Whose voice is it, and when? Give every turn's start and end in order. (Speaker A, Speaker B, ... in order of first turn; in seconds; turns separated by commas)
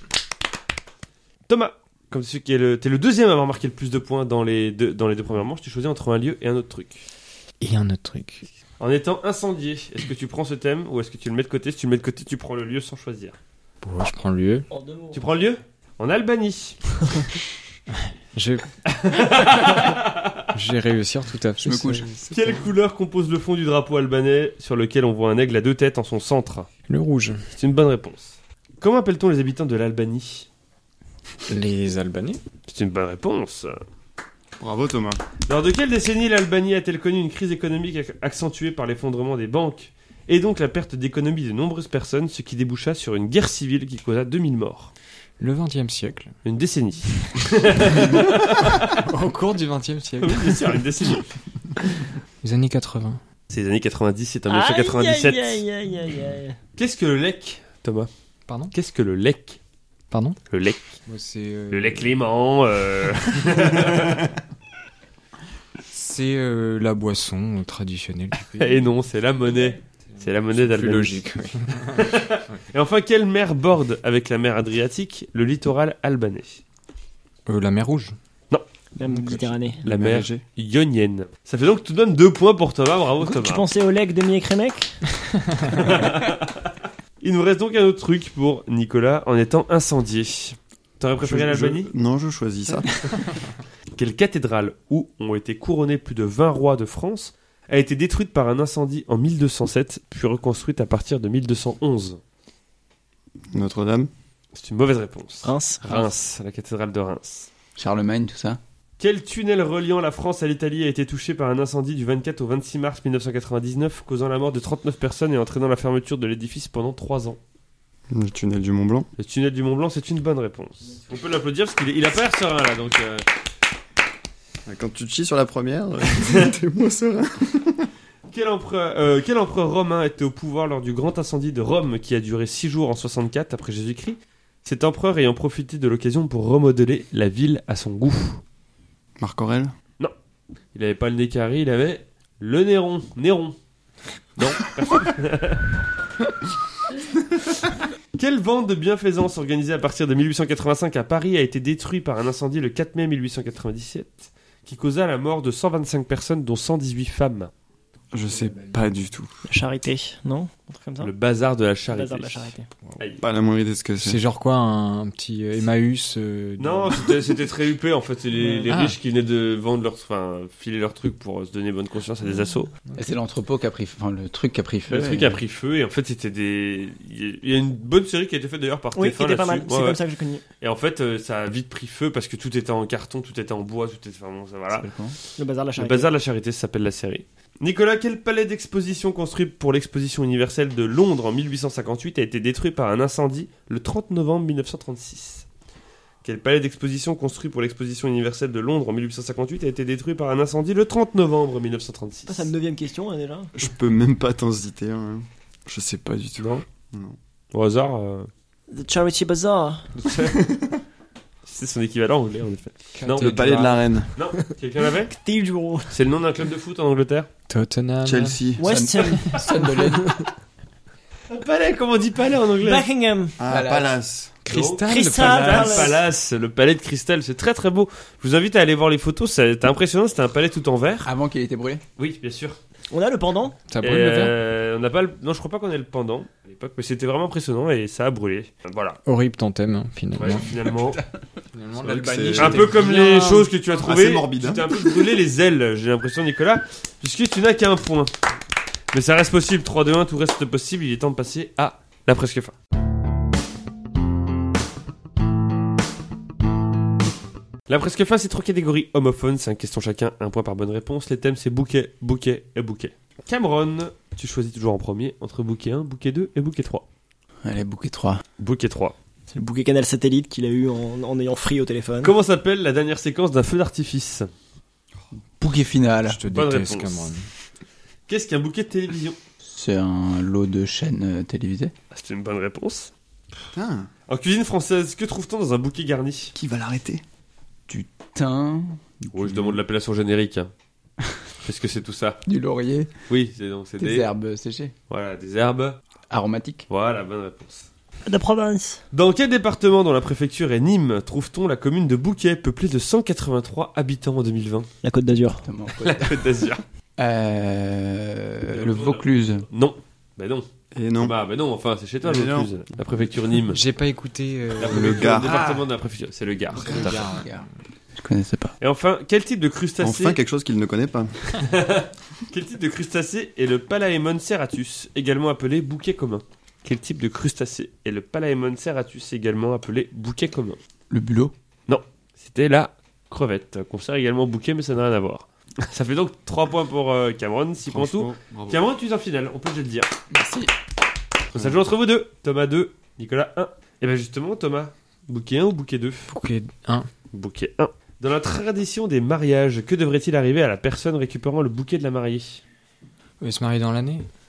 Speaker A: 1.5-7.0, Speaker B: 7.6-8.5, Speaker A: 8.8-13.4, Speaker B: 13.8-14.7, Speaker C: 14.7-15.3, Speaker A: 15.1-17.0, Speaker B: 18.4-18.7, Speaker A: 18.9-20.5, Speaker B: 20.5-22.7, Speaker D: 21.6-22.1, Speaker A: 22.3-26.7, Speaker B: 26.9-27.5, Speaker A: 27.5-30.5, Speaker B: 31.5-32.4, Speaker A: 32.7-33.8, Speaker E: 34.6-35.2, Speaker A: 35.5-44.9, Speaker B: 45.4-46.3, Speaker A: 46.5-49.0, Speaker B: 48.9-50.8, Speaker A: 50.2-51.3, Speaker B: 52.4-53.2, Speaker A: 53.5-55.6, Speaker C: 54.5-56.6, Speaker A: 56.8-58.1, Speaker B: 58.5-58.7, Speaker A: 58.7-59.6, Speaker B: 60.1-60.4, Speaker A: 60.5-61.0, Speaker B: 61.1-62.2, Speaker A: 61.7-64.3, Speaker B: 65.9-68.9, Speaker A: 68.6-71.2, Speaker B: 70.2-72.6, Speaker A: 71.9-76.6, Speaker B: 77.5-78.2, Speaker C: 79.0-79.8, Speaker E: 79.8-80.4, Speaker A: 79.9-83.7, Speaker C: 83.2-85.1, Speaker A: 85.7-91.9, Speaker E: 91.2-93.2, Speaker A: 94.0-102.2, Speaker E: 103.5-104.1, Speaker A: 104.5-107.5, Speaker C: 105.4-106.1, Speaker D: 107.8-108.6, Speaker A: 109.0-117.4, Speaker E: 118.1-119.1, Speaker A: 119.2-123.3, Speaker E: 124.7-127.9, Speaker A: 128.3-138.4, Speaker E: 139.2-139.7, Speaker A: 140.7-143.6, Speaker A: 144.4-145.7, Speaker A: 148.2-157.5, Speaker E: 158.1-159.3, Speaker B: 158.5-158.8, Speaker C: 159.4-161.1, Speaker A: 161.0-163.2, Speaker C: 161.9-162.7, Speaker E: 163.2-164.2, Speaker B: 164.0-167.2, Speaker A: 166.6-172.7, Speaker C: 168.4-168.6, Speaker B: 168.7-169.0, Speaker D: 173.0-175.4, Speaker A: 174.9-180.0, Speaker C: 179.0-180.4, Speaker A: 180.6-195.5, Speaker D: 184.7-185.2, Speaker C: 185.4-186.1, Speaker A: 196.2-202.5, Speaker C: 202.3-203.5, Speaker E: 203.6-207.2, Speaker A: 206.4-206.6, Speaker A: 207.5-208.3, Speaker C: 208.7-209.9, Speaker A: 209.9-210.4, Speaker E: 210.2-210.8, Speaker A: 211.4-213.4, Speaker B: 212.9-213.9, Speaker E: 213.2-214.1, Speaker A: 214.2-215.1, Speaker C: 215.1-216.0, Speaker A: 215.9-217.3, Speaker B: 217.5-218.4, Speaker E: 218.0-218.7, Speaker C: 218.6-219.8, Speaker D: 218.6-220.1, Speaker A: 221.3-222.9, Speaker C: 222.6-223.4, Speaker E: 223.4-224.4, Speaker D: 223.4-224.0, Speaker B: 224.4-226.0, Speaker A: 224.5-231.1, Speaker C: 224.9-226.0, Speaker D: 231.1-231.8, Speaker A: 232.0-232.6, Speaker C: 232.9-233.6, Speaker B: 233.7-234.4, Speaker A: 233.8-239.0, Speaker B: 239.1-240.6, Speaker A: 240.2-241.0, Speaker B: 241.5-243.5, Speaker E: 241.8-242.9, Speaker A: 242.0-248.1, Speaker E: 243.8-244.9, Speaker A: 248.9-252.5, Speaker A: 257.7-266.9, Speaker D: 267.4-268.2, Speaker A: 268.4-268.9, Speaker C: 269.3-272.1, Speaker A: 272.0-274.3, Speaker D: 275.4-276.2, Speaker B: 276.1-277.3, Speaker A: 276.3-277.1, Speaker A: 278.1-279.2, Speaker D: 279.4-281.7, Speaker A: 281.9-282.9, Speaker E: 283.5-283.9, Speaker A: 284.1-286.3, Speaker E: 286.4-287.0, Speaker D: 287.7-289.3, Speaker A: 289.1-290.5, Speaker A: 291.4-292.2, Speaker D: 292.3-292.9, Speaker A: 293.1-294.1, Speaker D: 293.8-294.7, Speaker A: 294.9-295.8, Speaker D: 296.1-296.6, Speaker A: 296.7-297.7, Speaker C: 298.1-298.8, Speaker A: 298.9-304.7, Speaker C: 304.8-305.5, Speaker D: 305.4-306.2, Speaker A: 305.8-306.6, Speaker D: 307.0-309.5, Speaker A: 308.5-310.5, Speaker E: 310.7-311.2, Speaker A: 311.0-313.6, Speaker E: 312.0-312.5, Speaker B: 313.5-315.4, Speaker A: 314.6-317.0, Speaker E: 314.6-315.6, Speaker B: 316.6-317.4, Speaker D: 316.6-318.6, Speaker A: 318.6-320.2, Speaker E: 319.8-321.2, Speaker A: 321.3-330.6, Speaker D: 330.9-331.3, Speaker A: 331.7-339.9, Speaker E: 337.7-338.6, Speaker D: 340.1-340.5, Speaker A: 341.3-346.1, Speaker B: 346.1-346.9, Speaker A: 347.1-352.4, Speaker B: 353.2-354.1